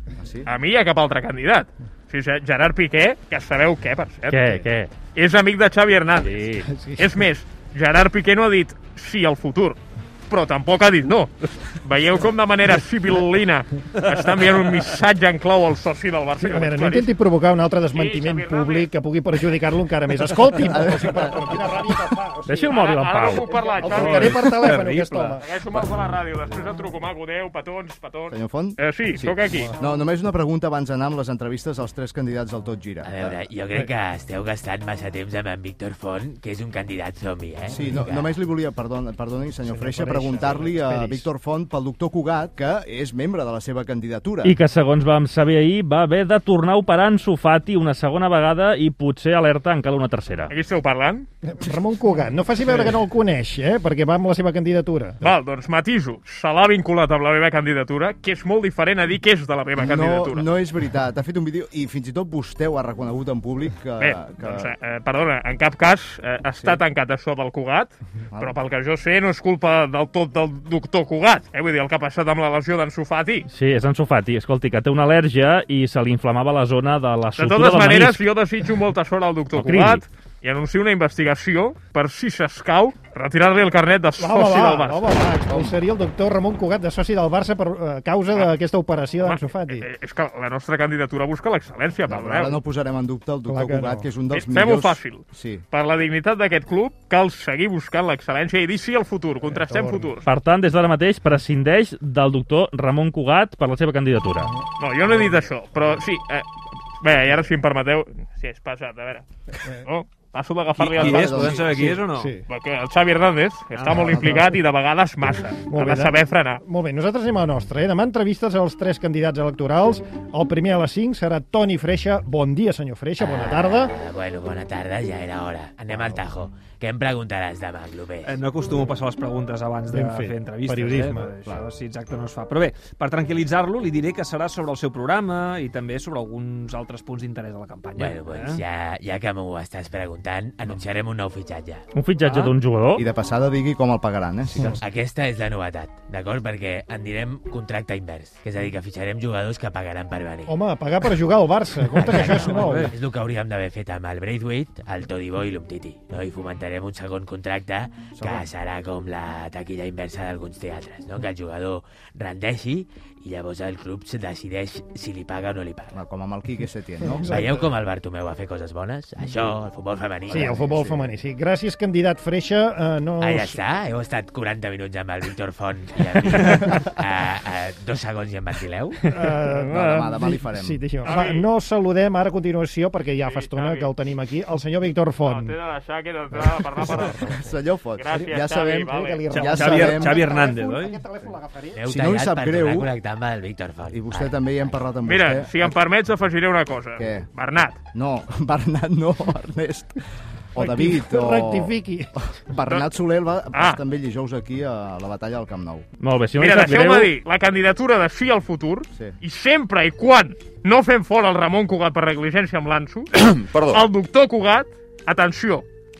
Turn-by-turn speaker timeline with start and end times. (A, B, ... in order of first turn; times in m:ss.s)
0:00.2-0:00.5 A
0:00.5-0:04.4 B
0:04.3-0:04.9 C
0:05.1-0:06.5 B
0:06.2-0:06.7 C
0:06.7-0:07.1 D
0:07.0-0:17.1 B
0:16.4-0:25.4 D
0:17.9-0:18.9 B
0:20.6-0:21.6 A
0:22.5-0:23.5 C
0:22.7-0:24.6 B
0:23.9-0:25.8 E
0:25.4-0:29.7 B
0:28.3-0:33.4 A
0:29.5-0:29.9 D
0:33.0-0:38.3 F
0:37.7-0:44.6 A
0:39.7-0:41.3 D
0:44.4-0:50.5 C
0:50.5-0:51.3 B
0:51.4-0:55.2 D
0:55.2-1:00.5 B
0:59.8-1:04.7 A
1:04.0-1:13.5 B
1:13.5-1:18.2 C
1:17.4-1:25.1 B
1:19.6-1:20.0 C
1:24.2-1:29.9 D
1:29.2-1:32.6 B
1:32.1-1:35.6 A
1:33.5-1:34.1 D
1:34.3-1:40.2 B
1:39.4-1:40.1 D
1:40.3-1:44.5 C
1:44.8-1:46.5 B
1:47.0-1:49.2 B
1:49.8-1:51.6 B
1:50.8-1:52.0 A
1:50.8-1:52.4 E
1:51.9-1:52.4 D
1:52.5-1:56.6 B
1:53.9-1:54.4 A
1:54.0-1:54.4 D
1:55.7-2:03.9 D
2:03.2-2:08.4 F
2:05.9-2:06.2 A
2:08.3-2:18.6 E
2:09.9-2:11.3 D
2:18.0-2:21.9 F
2:21.9-2:23.0 C
2:22.2-2:22.5 E
2:23.0-2:24.8 A
2:24.8-2:30.5 F
2:30.5-2:32.9 D
2:32.0-2:46.0 F
2:32.1-2:32.9 E
2:38.2-2:38.5 A
2:45.9-2:47.5 A
2:47.1-2:47.7 D
2:47.3-2:50.7 F
2:50.3-2:51.0 A
2:50.3-2:53.6 D
2:53.2-2:59.1 F
2:59.1-3:05.6 D
2:59.6-3:00.8 A
3:01.0-3:01.4 B
3:03.2-3:03.9 B
3:05.3-3:07.3 B
3:06.3-3:07.5 D
3:06.8-3:10.3 A
3:08.0-3:09.3 B
3:08.9-3:11.8 D
3:09.3-3:11.0 E
3:11.8-3:14.8 F
3:11.9-3:12.9 A
3:13.9-3:15.8 A
3:15.0-3:17.8 B
3:17.0-3:17.3 A
3:17.9-3:20.0 A
3:20.5-3:21.7 A
3:20.6-3:22.1 D
3:22.5-3:25.9 A
3:23.5-3:23.8 B
3:26.0-3:27.1 C
3:26.4-3:33.1 B
3:33.7-3:35.6 B